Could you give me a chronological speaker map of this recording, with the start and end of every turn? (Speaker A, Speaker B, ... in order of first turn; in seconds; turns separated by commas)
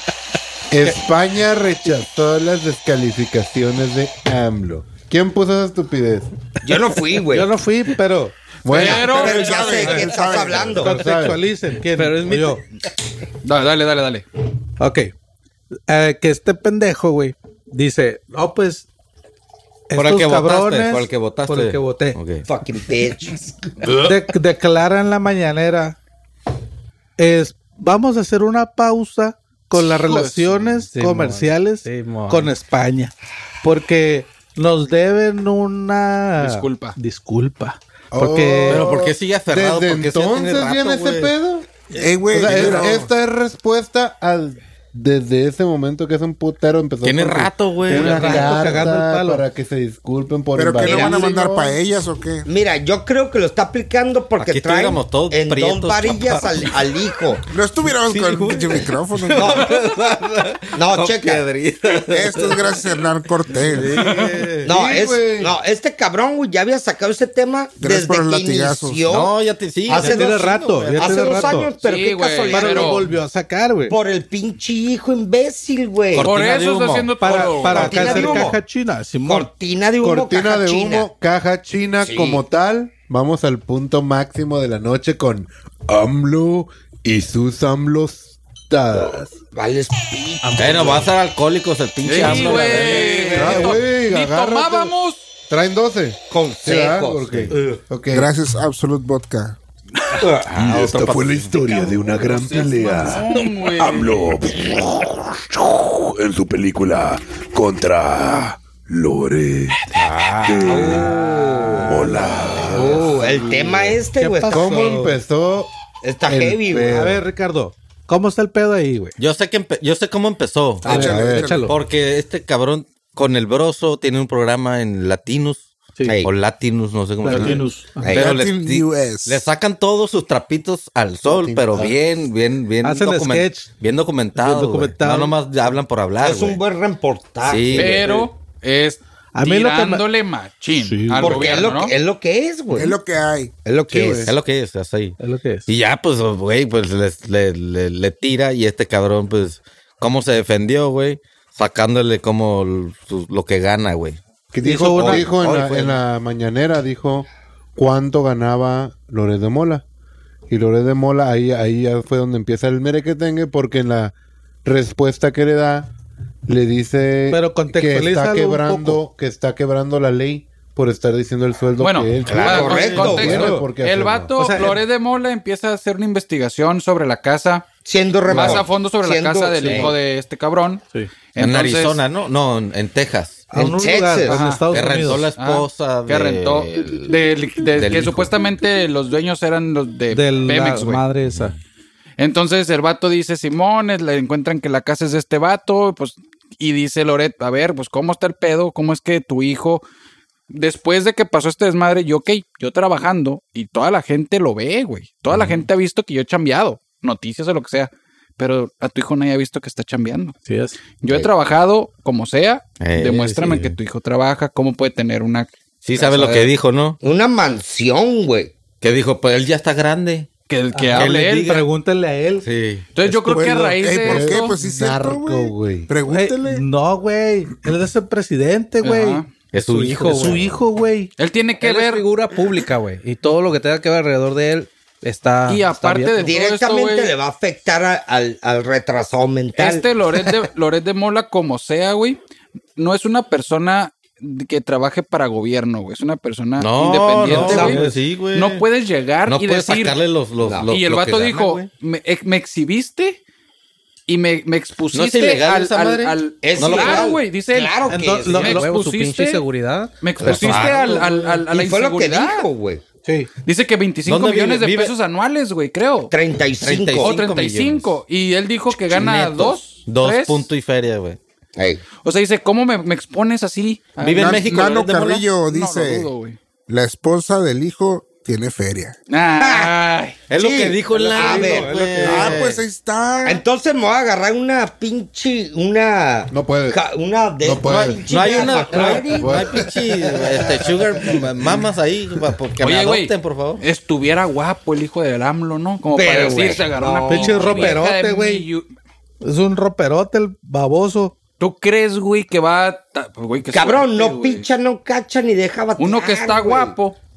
Speaker A: 0.7-6.3, Speaker B: 6.6-7.5, Speaker C: 7.3-8.3, Speaker A: 8.6-9.2, Speaker D: 8.7-9.8, Speaker B: 8.7-11.0, Speaker E: 8.8-10.9, Speaker C: 9.7-10.1, Speaker C: 10.7-12.6, Speaker A: 10.8-11.4, Speaker F: 11.9-12.6, Speaker D: 13.4-14.2, Speaker C: 14.8-15.1, Speaker C: 15.9-18.9, Speaker C: 19.9-22.2, Speaker G: 19.9-22.4, Speaker B: 22.4-23.6, Speaker C: 23.8-26.0, Speaker C: 27.2-38.9, Speaker D: 29.8-30.6, Speaker F: 30.8-32.5, Speaker D: 36.4-37.0, Speaker A: 38.1-41.7, Speaker G: 38.7-41.3, Speaker E: 41.9-43.1, Speaker A: 42.3-51.8, Speaker C: 42.5-42.9, Speaker G: 47.0-48.9, Speaker C: 47.9-49.4, Speaker E: 50.5-52.5, Speaker B: 50.8-51.3, Speaker B: 52.5-57.5, Speaker G: 54.4-56.7, Speaker E: 57.5-59.6, Speaker G: 58.1-63.0, Speaker B: 59.3-59.8, Speaker B: 60.8-61.5, Speaker E: 62.1-64.0, Speaker G: 63.5-64.7, Speaker C: 63.8-64.6, Speaker A: 64.1-65.5, Speaker B: 64.6-69.3, Speaker E: 67.8-69.0, Speaker G: 69.1-71.6, Speaker B: 69.9-73.1, Speaker C: 70.0-71.7, Speaker D: 71.8-73.0, Speaker C: 72.5-74.0, Speaker B: 73.9-76.3, Speaker G: 76.1-77.1, Speaker D: 76.2-78.5, Speaker C: 77.2-79.5, Speaker B: 77.2-78.6, Speaker B: 79.2-81.1, Speaker A: 80.0-89.3, Speaker B: 82.0-82.4, Speaker B: 89.5-91.1, Speaker F: 90.4-91.1, Speaker G: 90.5-93.6, Speaker D: 92.0-95.2, Speaker C: 92.2-93.3, Speaker A: 93.3-94.9, Speaker A: 95.5-98.3, Speaker B: 96.3-97.7, Speaker E: 98.1-99.5, Speaker B: 100.2-100.5, Speaker A: 100.2-109.9, Speaker G: 100.4-101.8, Speaker D: 102.1-104.2, Speaker G: 110.0-111.0, Speaker A: 110.4-111.2, Speaker B: 110.5-115.0, Speaker A: 111.8-114.0, Speaker C: 114.2-115.2, Speaker A: 114.5-115.7, Speaker B: 116.0-116.9, Speaker A: 116.2-117.2, Speaker C: 116.8-119.1, Speaker G: 119.2-121.1, Speaker C: 120.8-121.7, Speaker B: 120.8-121.2, Speaker E: 120.8-121.7, Speaker A: 120.9-121.5, Speaker G: 121.6-136.6, Speaker C: 127.2-128.1, Speaker B: 127.3-128.3, Speaker E: 128.1-129.4, Speaker A: 131.3-131.9, Speaker C: 132.8-133.7, Speaker C: 134.3-135.3, Speaker B: 136.2-138.2, Speaker G: 137.4-138.2, Speaker D: 137.7-141.9, Speaker C: 139.3-140.0, Speaker C: 140.8-141.6, Speaker B: 141.2-142.9, Speaker E: 142.7-143.5, Speaker B: 143.6-144.3, Speaker A: 143.9-144.3, Speaker G: 144.2-145.2, Speaker C: 145.2-145.7, Speaker G: 145.7-154.2, Speaker A: 154.5-159.8, Speaker C: 154.6-155.3, Speaker G: 154.8-156.0, Speaker A: 160.5-165.9, Speaker A: 166.5-174.3, Speaker C: 167.3-169.0, Speaker D: 171.8-177.7, Speaker B: 172.2-173.5, Speaker G: 172.6-173.2, Speaker C: 173.0-173.7, Speaker C: 174.4-174.8, Speaker B: 177.8-179.9, Speaker D: 178.3-180.8, Speaker G: 178.3-178.6, Speaker D: 181.3-182.0, Speaker G: 181.4-183.5, Speaker C: 183.5-185.3, Speaker B: 183.5-184.4, Speaker D: 184.3-191.0, Speaker G: 184.7-188.3, Speaker C: 190.1-191.5, Speaker G: 191.3-191.6, Speaker D: 192.2-199.8, Speaker D: 200.5-210.3, Speaker G: 205.3-205.6, Speaker C: 210.5-210.8, Speaker D: 211.0-216.5, Speaker G: 212.8-213.8, Speaker G: 215.8-217.0, Speaker B: 217.0-218.5, Speaker G: 218.8-220.3, Speaker D: 220.5-221.6, Speaker C: 220.7-222.5, Speaker G: 220.9-221.6, Speaker G: 222.4-222.9, Speaker D: 222.9-224.5, Speaker E: 223.1-226.6, Speaker A: 224.0-225.9, Speaker C: 226.1-229.2, Speaker D: 228.8-229.3, Speaker G: 229.5-230.6, Speaker F: 229.7-230.4, Speaker C: 229.8-231.1, Speaker D: 231.2-232.1, Speaker F: 231.6-236.3, Speaker D: 235.5-237.1, Speaker B: 236.2-239.8, Speaker D: 239.6-242.2, Speaker D: 242.8-250.0, Speaker G: 246.6-248.6, Speaker C: 247.2-248.0, Speaker B: 247.4-247.8, Speaker G: 249.2-251.7, Speaker B: 250.4-250.7, Speaker D: 250.7-253.2, Speaker D: 254.1-257.8, Speaker G: 254.9-257.1, Speaker B: 256.4-258.6, Speaker C: 257.9-258.7, Speaker D: 258.3-259.4, Speaker F: 258.3-260.7, Speaker D: 260.0-262.5, Speaker G: 260.2-260.9, Speaker C: 260.2-261.4, Speaker B: 261.4-262.8, Speaker D: 263.4-266.1, Speaker G: 264.1-264.9, Speaker B: 266.1-267.1, Speaker G: 266.6-267.9, Speaker D: 267.0-270.5, Speaker G: 268.8-271.2, Speaker B: 271.6-271.8, Speaker D: 272.0-274.7, Speaker G: 274.0-275.3, Speaker E: 274.0-276.1, Speaker D: 275.4-276.4, Speaker E: 276.7-278.9, Speaker D: 279.1-280.2, Speaker B: 279.4-279.8, Speaker G: 280.3-282.6, Speaker B: 280.3-282.4, Speaker C: 280.9-282.4, Speaker E: 282.0-283.4, Speaker B: 283.2-289.6, Speaker A: 286.3-286.8, Speaker A: 287.4-288.0, Speaker G: 287.7-293.6, Speaker A: 289.1-290.6, Speaker D: 292.6-298.7, Speaker B: 295.9-297.8, Speaker C: 297.1-298.5, Speaker C: 299.2-301.1, Speaker D: 301.4-304.4, Speaker B: 303.5-306.7, Speaker D: 305.8-307.0